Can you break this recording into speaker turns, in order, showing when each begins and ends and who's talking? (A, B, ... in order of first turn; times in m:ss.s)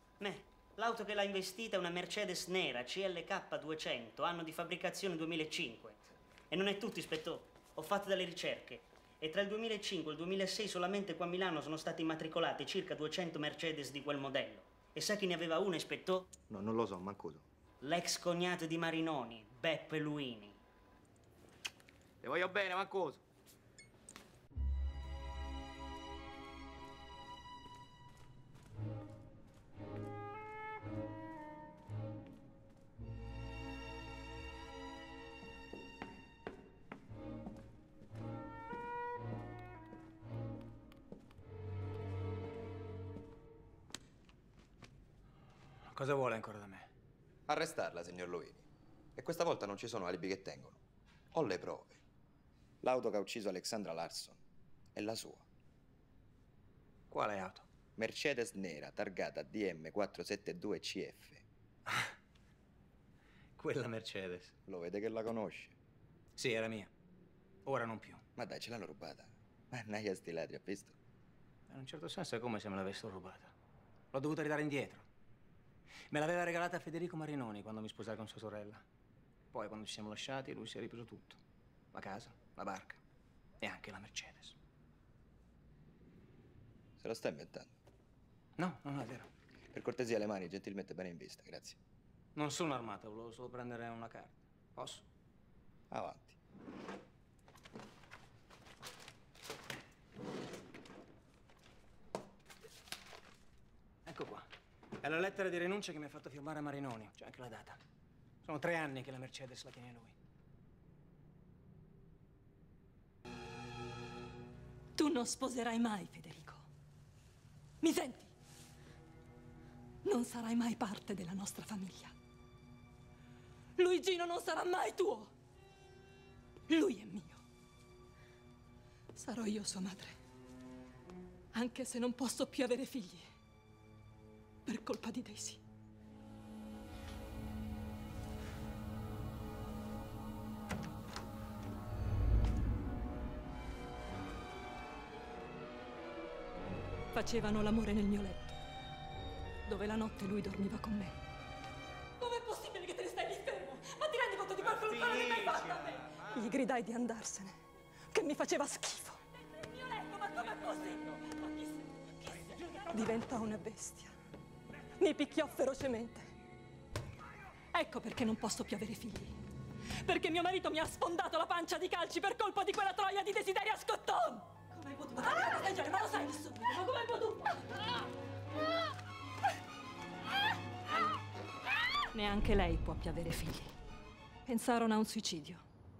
0:00.2-0:16.3 A
0:16.5-0:17.4 B
0:17.8-0:20.6 A
0:22.2-0:23.2 B
0:45.9-0:46.9 C
0:47.5-0:50.8 B
0:51.3-0:52.0 B
0:52.8-0:54.4 B
0:54.9-0:55.4 B
0:57.1-0:57.6 C
0:58.0-1:01.4 B
1:03.6-1:04.5 C
1:04.7-1:05.7 B
1:06.4-1:06.9 C
1:07.6-1:08.2 C
1:08.4-1:11.0 B
1:11.7-1:13.5 C
1:14.1-1:15.1 C
1:16.1-1:18.8 C
1:19.5-1:21.4 C
1:21.9-1:23.0 C
1:23.6-1:24.6 C
1:27.0-1:27.8 B
1:28.6-1:29.3 C
1:29.7-1:31.8 B
1:32.4-1:35.0 C
1:35.9-1:36.4 B
1:44.0-1:44.5 C
1:45.0-1:47.8 C
1:48.4-1:50.1 C
1:55.0-1:56.6 D
1:57.8-1:58.3 D
2:00.0-2:02.1 D
2:03.8-2:05.3 D
2:06.7-2:07.4 D
2:09.2-2:10.1 D
2:11.5-2:13.2 D
2:14.6-2:15.6 D
2:27.1-2:28.5 D
2:29.7-2:31.2 D
2:32.2-2:37.5 D
2:38.1-2:44.1 D
2:45.0-2:46.3 D
2:47.7-2:49.4 D
2:50.0-2:57.6 D
3:02.1-3:03.7 D
3:04.4-3:05.6 D